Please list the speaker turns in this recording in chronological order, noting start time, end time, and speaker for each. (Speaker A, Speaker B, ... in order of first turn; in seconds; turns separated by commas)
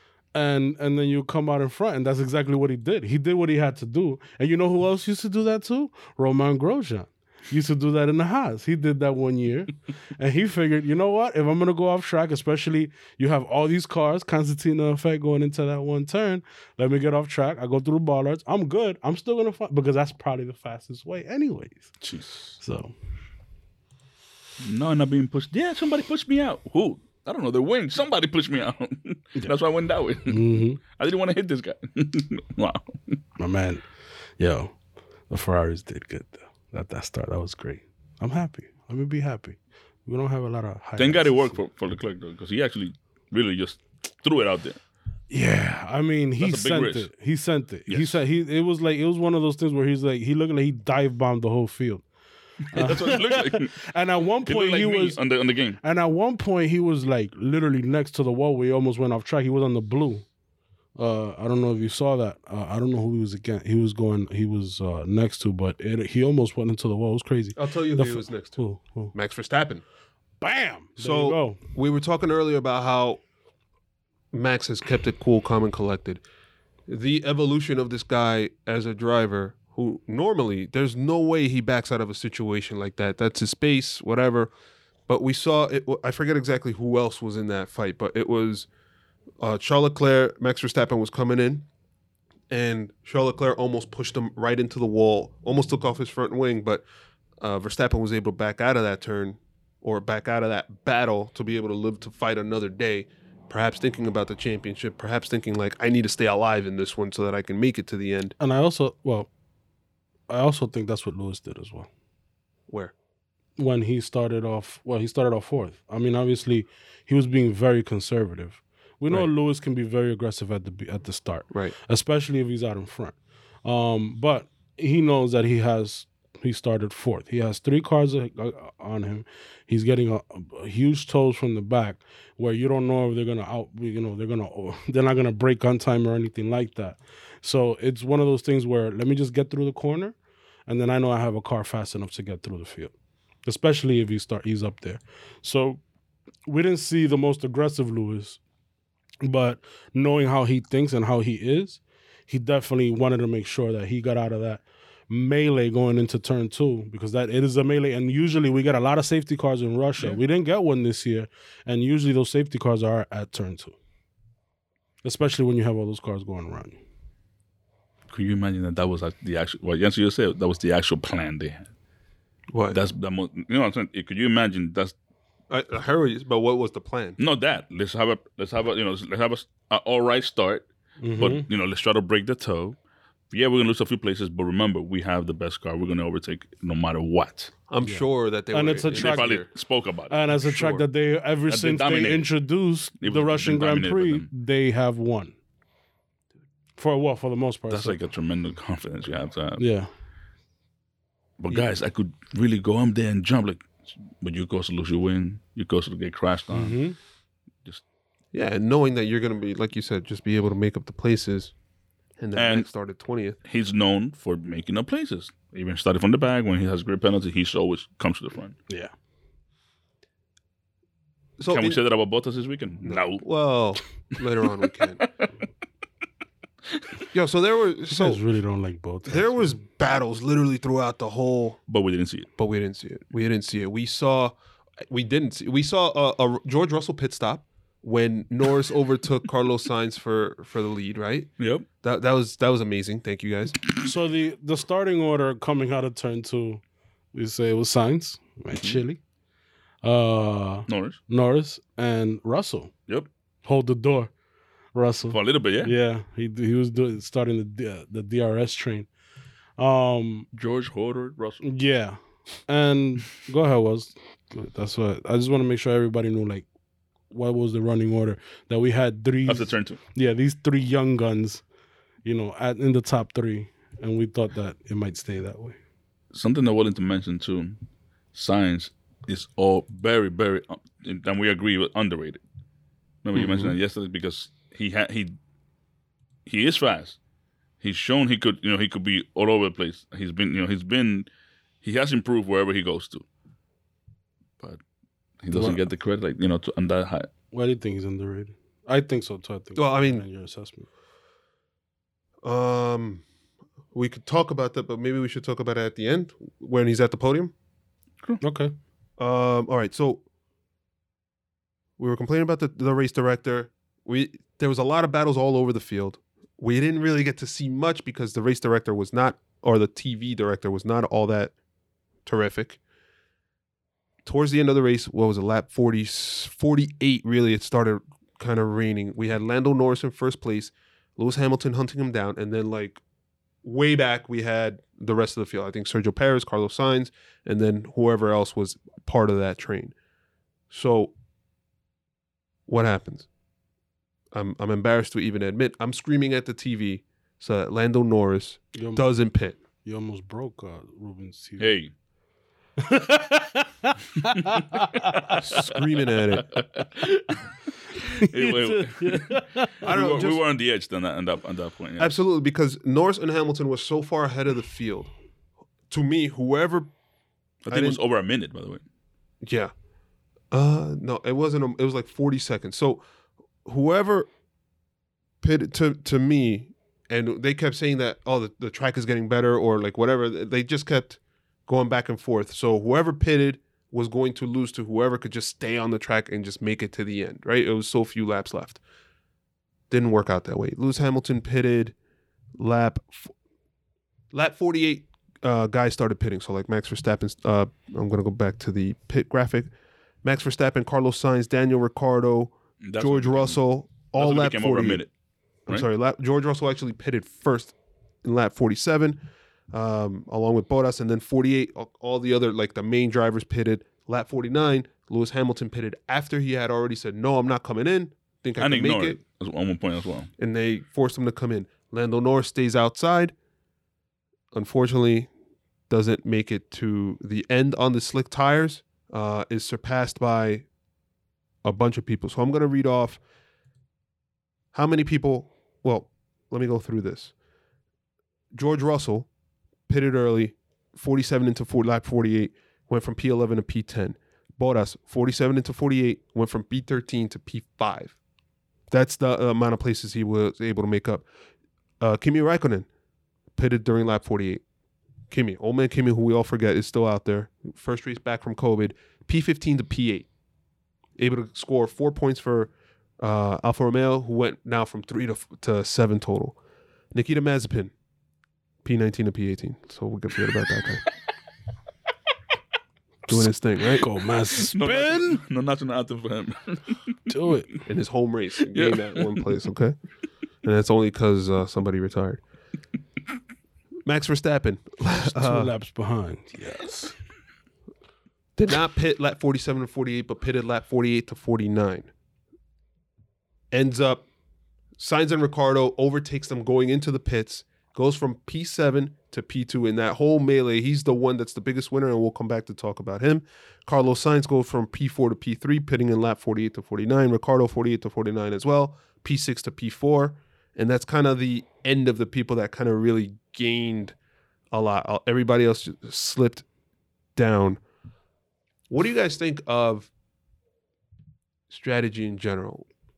Speaker A: 0.3-21.9, Speaker B: 22.0-22.6, Speaker A: 22.6-22.9, Speaker B: 24.6-33.2, Speaker A: 30.3-30.8, Speaker A: 33.4-33.9, Speaker A: 34.4-34.7, Speaker A: 35.3-41.6, Speaker B: 41.0-44.8, Speaker A: 45.3-52.0, Speaker B: 46.4-47.1, Speaker B: 47.9-48.2, Speaker B: 52.6-53.8, Speaker A: 52.7-55.2, Speaker B: 54.4-55.8, Speaker A: 55.8-60.3, Speaker A: 61.0-69.1, Speaker C: 67.6-68.6, Speaker C: 69.1-69.8, Speaker A: 70.4-71.6, Speaker C: 71.0-73.2, Speaker C: 74.3-76.2, Speaker C: 76.9-84.5, Speaker C: 85.1-88.7, Speaker C: 89.4-91.7, Speaker C: 92.5-96.8, Speaker C: 97.4-108.3, Speaker A: 108.4-109.3, Speaker A: 110.3-111.9, Speaker C: 112.7-112.9, Speaker A: 113.6-140.2, Speaker A: 140.7-142.9, Speaker A: 143.4-145.8, Speaker A: 146.5-148.4, Speaker A: 149.2-163.8, Speaker A: 165.0-166.8, Speaker B: 168.1-171.7, Speaker C: 172.5-172.8, Speaker B: 172.7-174.9, Speaker C: 175.5-177.2, Speaker B: 177.2-182.8, Speaker A: 181.0-181.5, Speaker B: 183.3-187.5, Speaker C: 187.7-189.5, Speaker A: 187.8-189.4, Speaker B: 188.9-190.2, Speaker A: 190.1-195.3, Speaker C: 190.3-190.8, Speaker B: 191.5-192.3, Speaker B: 193.0-194.3, Speaker A: 196.8-198.0, Speaker B: 197.7-199.6, Speaker A: 199.6-199.9, Speaker B: 201.4-206.8, Speaker C: 201.5-201.8, Speaker A: 206.5-207.0, Speaker C: 208.3-211.5, Speaker C: 212.2-213.4, Speaker B: 212.4-212.7, Speaker B: 213.5-218.6, Speaker C: 221.4-221.8, Speaker B: 221.5-223.2, Speaker C: 222.8-225.1, Speaker B: 225.0-225.3, Speaker C: 227.1-228.2, Speaker A: 227.9-229.5, Speaker C: 229.1-231.6, Speaker B: 231.7-232.3, Speaker C: 232.4-234.3, Speaker C: 234.9-241.3, Speaker B: 241.4-241.7, Speaker C: 241.8-243.6, Speaker A: 243.8-246.6, Speaker A: 247.1-249.0, Speaker B: 248.6-248.8, Speaker A: 249.8-252.7, Speaker B: 250.7-251.0, Speaker A: 253.4-254.1, Speaker A: 254.7-258.9, Speaker B: 255.1-255.7, Speaker A: 259.6-260.3, Speaker B: 260.3-261.4, Speaker A: 261.4-266.5, Speaker A: 267.1-271.4, Speaker B: 269.3-269.8, Speaker A: 272.1-275.6, Speaker B: 276.1-277.6, Speaker B: 278.1-282.2, Speaker B: 283.0-285.2, Speaker C: 283.1-283.6, Speaker B: 286.3-287.0, Speaker B: 287.6-291.1, Speaker B: 291.6-293.1, Speaker B: 295.2-297.1, Speaker A: 295.3-295.6, Speaker A: 297.3-300.7, Speaker C: 299.6-300.0, Speaker C: 302.2-303.0, Speaker C: 303.7-307.3, Speaker A: 308.2-308.5, Speaker C: 309.0-310.0, Speaker C: 311.8-321.3, Speaker C: 322.1-322.6, Speaker C: 324.1-332.8, Speaker C: 333.4-339.8, Speaker C: 340.5-340.9, Speaker C: 342.5-343.1, Speaker C: 344.1-349.4, Speaker A: 348.6-348.9, Speaker A: 349.6-351.5, Speaker B: 351.4-351.7, Speaker A: 352.6-355.1, Speaker C: 355.2-356.3, Speaker A: 358.0-359.5, Speaker B: 358.0-361.9, Speaker C: 359.6-360.2, Speaker C: 361.8-364.9, Speaker C: 365.7-366.7, Speaker B: 367.4-368.6, Speaker C: 367.5-367.8, Speaker C: 369.2-369.5, Speaker C: 370.3-372.9, Speaker C: 373.4-374.1, Speaker C: 375.2-388.6, Speaker C: 389.7-391.8, Speaker C: 392.4-393.1, Speaker C: 394.1-399.5, Speaker C: 400.0-404.9, Speaker B: 402.6-404.9, Speaker C: 405.5-419.0, Speaker B: 418.4-420.1, Speaker C: 420.2-423.1, Speaker C: 424.3-425.1, Speaker C: 425.7-430.5, Speaker C: 431.4-433.0, Speaker C: 434.5-437.1, Speaker C: 438.3-439.1, Speaker C: 439.7-448.0, Speaker C: 448.7-451.1, Speaker C: 451.8-452.7, Speaker C: 453.4-454.4, Speaker C: 455.1-460.1, Speaker C: 461.0-466.4, Speaker C: 466.9-467.7, Speaker C: 468.6-470.9, Speaker C: 473.1-473.9, Speaker A: 473.7-475.2, Speaker B: 474.3-477.0, Speaker A: 477.1-477.5, Speaker C: 477.7-479.8, Speaker B: 478.5-479.3, Speaker C: 480.4-482.2, Speaker C: 483.9-485.5, Speaker A: 485.0-487.0, Speaker C: 488.4-491.9, Speaker C: 493.5-494.1, Speaker C: 494.8-514.0, Speaker C: 514.5-516.5, Speaker C: 517.2-517.6, Speaker C: 518.7-519.9, Speaker C: 521.5-522.7